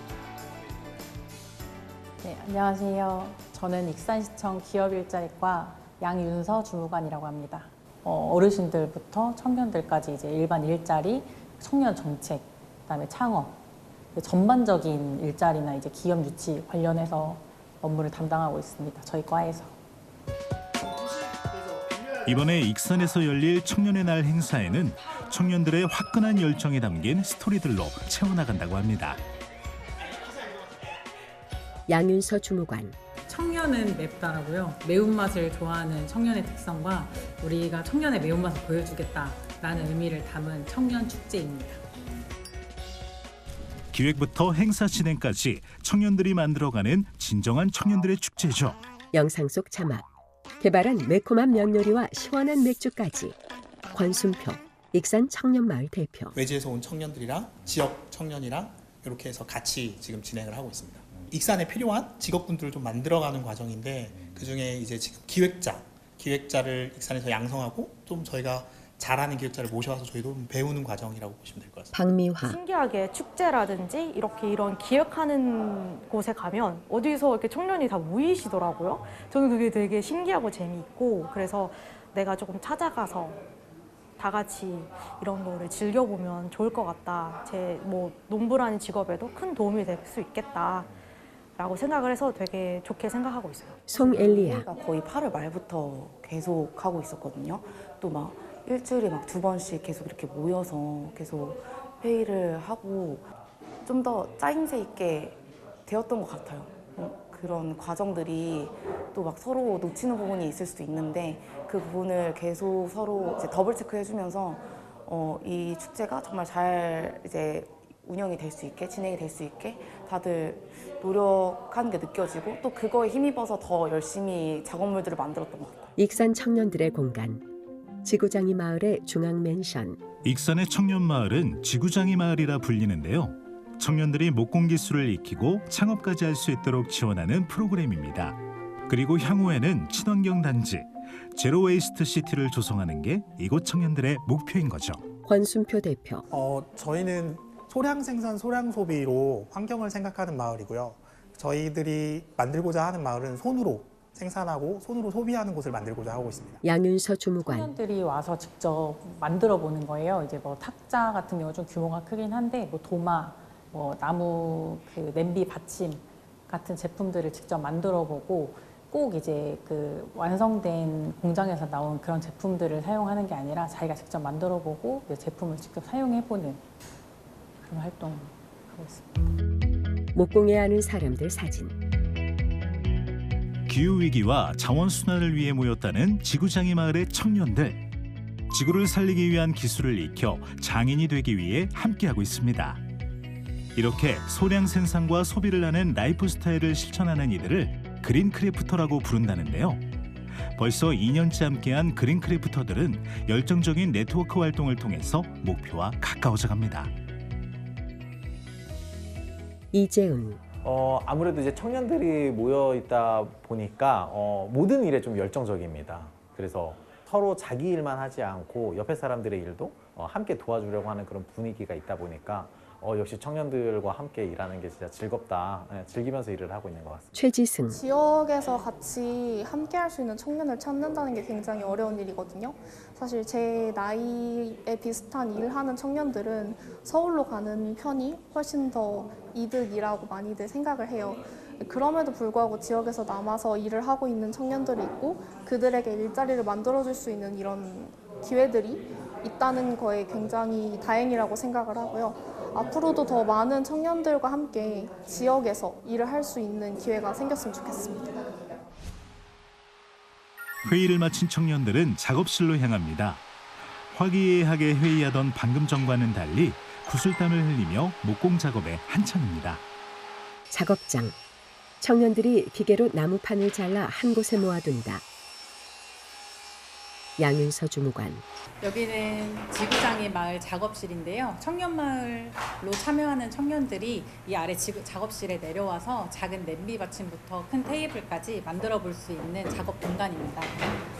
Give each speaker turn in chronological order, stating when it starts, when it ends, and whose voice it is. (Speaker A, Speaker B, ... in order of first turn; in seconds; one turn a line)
Speaker A: 2.2-13.6
Speaker A: 14.2-19.8
Speaker B: 22.3-29.2
Speaker C: 31.9-33.0
Speaker A: 33.3-41.8
Speaker B: 43.9-48.8
Speaker C: 49.1-50.0
Speaker C: 50.6-53.4
Speaker C: 53.9-56.4
Speaker D: 56.4-71.9
Speaker C: 71.9-72.6
Speaker E: 72.4-83.4
Speaker E: 84.2-90.9
Speaker E: 91.6-93.8
Speaker C: 93.9-94.7
Speaker F: 93.9-103.3
Speaker F: 103.8-125.9
Speaker C: 126.0-127.4
Speaker C: 128.0-130.1
Speaker B: 130.2-145.1
Speaker C: 145.2-146.2
Speaker D: 146.3-156.6
Speaker C: 156.6-157.7
Speaker A: 157.4-176.6
Speaker A: 177.6-179.1
Speaker C: 180.1-181.8
Speaker B: 183.7-187.8
Speaker B: 188.5-192.8
Speaker B: 193.8-199.8
Speaker B: 200.6-206.9
Speaker C: 209.7-210.4
Speaker G: 210.6-227.2
Speaker C: 227.1-227.8
Speaker H: 227.7-258.3
Speaker B: 260.6-263.2
Speaker B: 263.9-269.6
Speaker C: 270.5-271.2
Speaker C: 271.8-275.0
Speaker C: 277.2-278.2
Speaker A: 278.6-290.7